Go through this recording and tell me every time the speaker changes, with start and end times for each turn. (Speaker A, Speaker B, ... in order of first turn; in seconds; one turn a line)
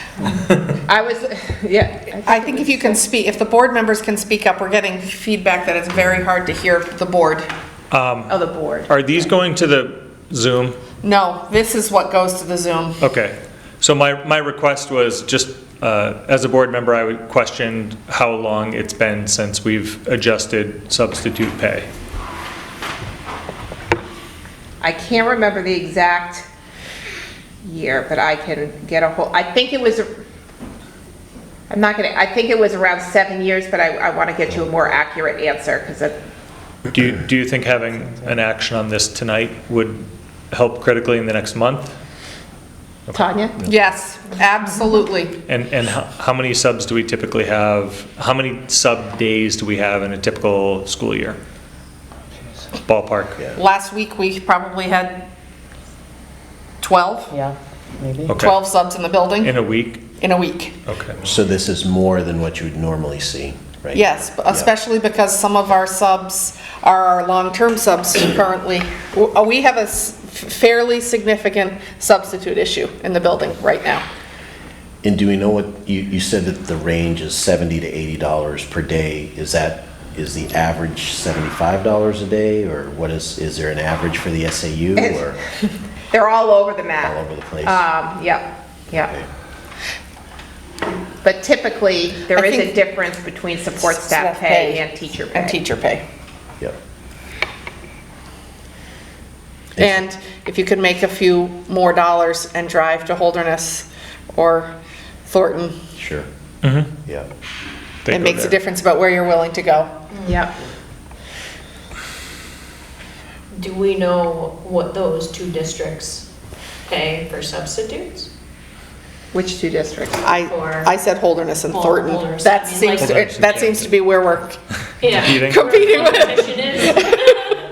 Speaker A: 0.2-0.7
Speaker B: 0.8-3.0
Speaker C: 2.2-7.5
Speaker A: 7.9-10.8
Speaker B: 8.3-9.0
Speaker C: 11.0-13.0
Speaker A: 13.0-21.9
Speaker B: 24.8-26.4
Speaker B: 27.6-30.2
Speaker B: 31.7-36.2
Speaker A: 36.9-42.0
Speaker A: 43.1-43.3
Speaker B: 43.1-43.6
Speaker C: 43.6-45.3
Speaker A: 45.5-51.4
Speaker A: 52.8-53.4
Speaker C: 53.5-55.2
Speaker C: 56.8-57.4
Speaker A: 58.2-58.7
Speaker C: 58.3-59.5
Speaker A: 59.4-60.0
Speaker C: 60.2-60.7
Speaker A: 60.8-61.2
Speaker D: 61.2-64.7
Speaker C: 63.9-74.0
Speaker D: 75.0-85.4
Speaker B: 85.0-85.2
Speaker B: 86.1-89.1
Speaker D: 87.0-87.8
Speaker B: 91.2-95.6
Speaker C: 92.3-92.8
Speaker C: 93.8-96.0
Speaker C: 99.8-104.7
Speaker C: 105.3-105.8
Speaker D: 106.0-106.3
Speaker A: 106.6-106.9
Speaker A: 108.0-108.6
Speaker C: 108.1-109.9
Speaker E: 110.1-110.4
Speaker B: 110.2-110.5
Speaker E: 113.5-116.2
Speaker E: 116.8-118.3
Speaker B: 119.3-120.3
Speaker C: 120.2-124.6
Speaker E: 120.4-121.0
Speaker E: 121.6-123.2
Speaker A: 123.0-123.9
Speaker E: 125.0-127.6
Speaker A: 125.1-126.1
Speaker C: 125.3-127.3